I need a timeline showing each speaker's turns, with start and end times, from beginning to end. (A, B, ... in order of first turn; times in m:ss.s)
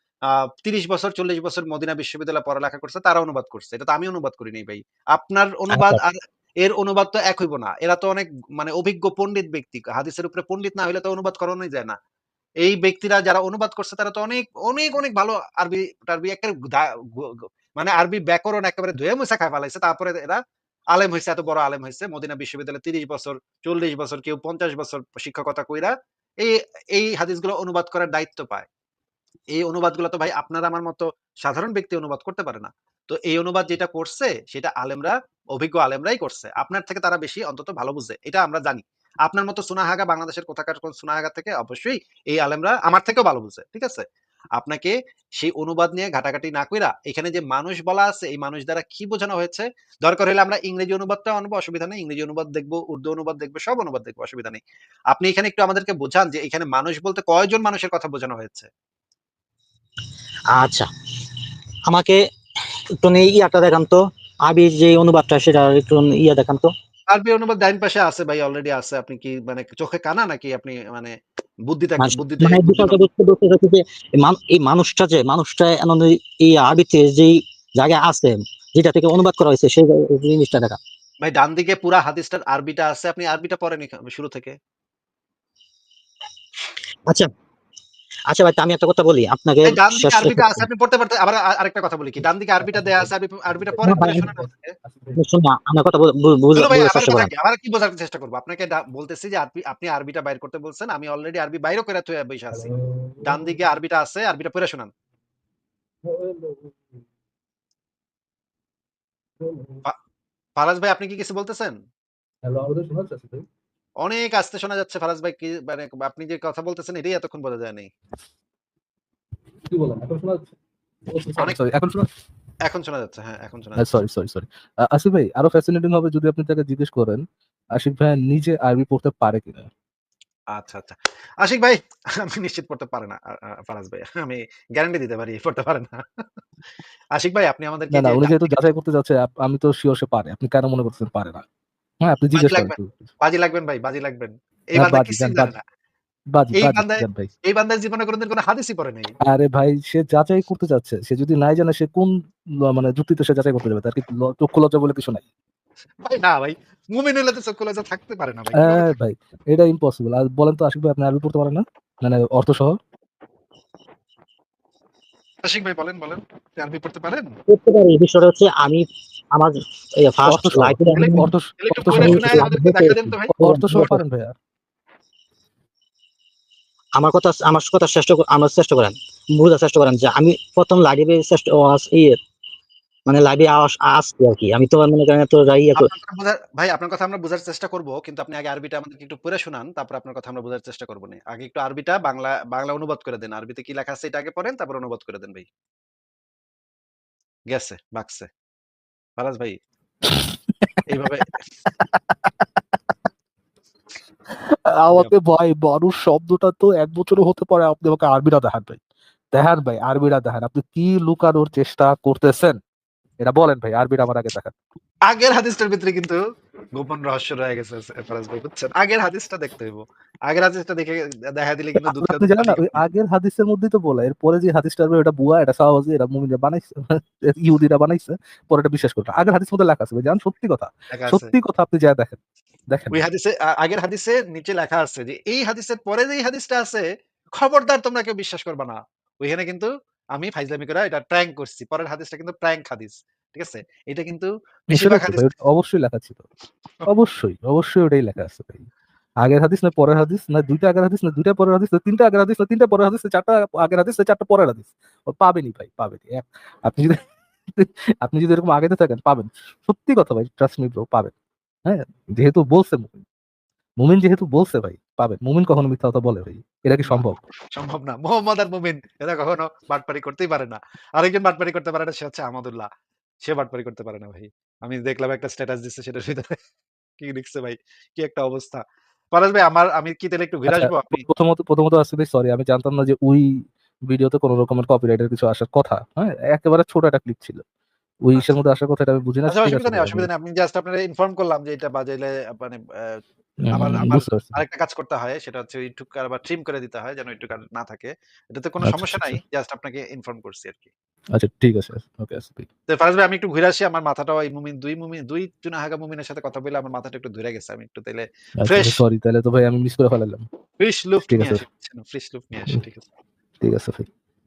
0:00.3-0:12.0 A
0:05.7-0:06.0 B
0:12.6-0:20.4 A
0:20.9-0:28.7 A
0:29.6-0:44.0 A
0:44.6-0:58.7 A
1:00.5-1:00.9 B
1:01.9-1:02.2 B
1:03.0-1:06.7 B
1:07.1-1:13.0 A
1:12.0-1:20.8 B
1:21.2-1:24.6 A
1:28.3-1:30.7 B
1:29.6-1:34.8 A
1:32.6-1:35.2 C
1:33.8-1:34.2 B
1:35.2-1:37.3 B
1:36.6-1:42.7 A
1:42.5-1:43.6 C
1:43.2-1:44.9 A
1:46.0-1:47.0 C
1:49.4-1:49.8 C
1:50.6-1:51.8 A
1:52.4-1:53.4 C
1:54.0-1:57.9 A
1:59.7-2:00.5 C
2:01.1-2:02.1 C
2:02.7-2:03.8 A
2:03.8-2:09.7 C
2:10.5-2:16.2 A
2:17.2-2:18.7 A
2:17.9-2:21.4 C
2:22.0-2:23.1 C
2:22.3-2:25.6 A
2:24.8-2:25.5 C
2:26.3-2:27.3 C
2:26.5-2:29.2 A
2:29.3-2:35.2 C
2:36.0-2:38.9 A
2:38.6-2:42.8 C
2:45.4-2:47.3 A
2:47.5-2:51.3 B
2:50.3-2:54.4 C
2:50.9-2:53.4 A
2:51.9-2:54.0 B
2:57.0-3:02.2 B
3:03.1-3:05.9 B
3:05.8-3:15.5 A
3:17.5-3:18.3 A
3:19.2-3:19.6 A
3:20.1-3:21.3 C
3:20.9-3:21.4 A
3:21.8-3:22.4 C
3:24.3-3:28.8 C
3:29.3-3:32.6 C
3:33.2-3:34.5 C
3:35.1-3:36.2 A
3:36.8-3:42.8 A
3:41.8-3:53.0 C
3:50.9-3:51.3 A
3:52.9-3:56.9 A
3:57.4-4:05.3 A
4:04.7-4:06.3 C
4:06.9-4:08.7 C
4:09.2-4:21.1 C
4:21.7-4:23.0 C
4:23.8-4:27.2 C
4:26.9-4:32.7 A
4:33.2-4:36.4 A
4:37.0-4:41.0 A
4:40.5-4:47.4 C
4:48.0-4:50.1 C
4:49.3-4:53.0 A
4:53.4-4:54.4 C
4:53.5-5:00.7 A
4:58.6-4:59.2 C
5:01.2-5:02.5 C
5:02.7-5:08.8 A
5:08.4-5:10.3 C
5:10.6-5:12.9 A
5:11.0-5:11.4 C
5:13.4-5:13.9 C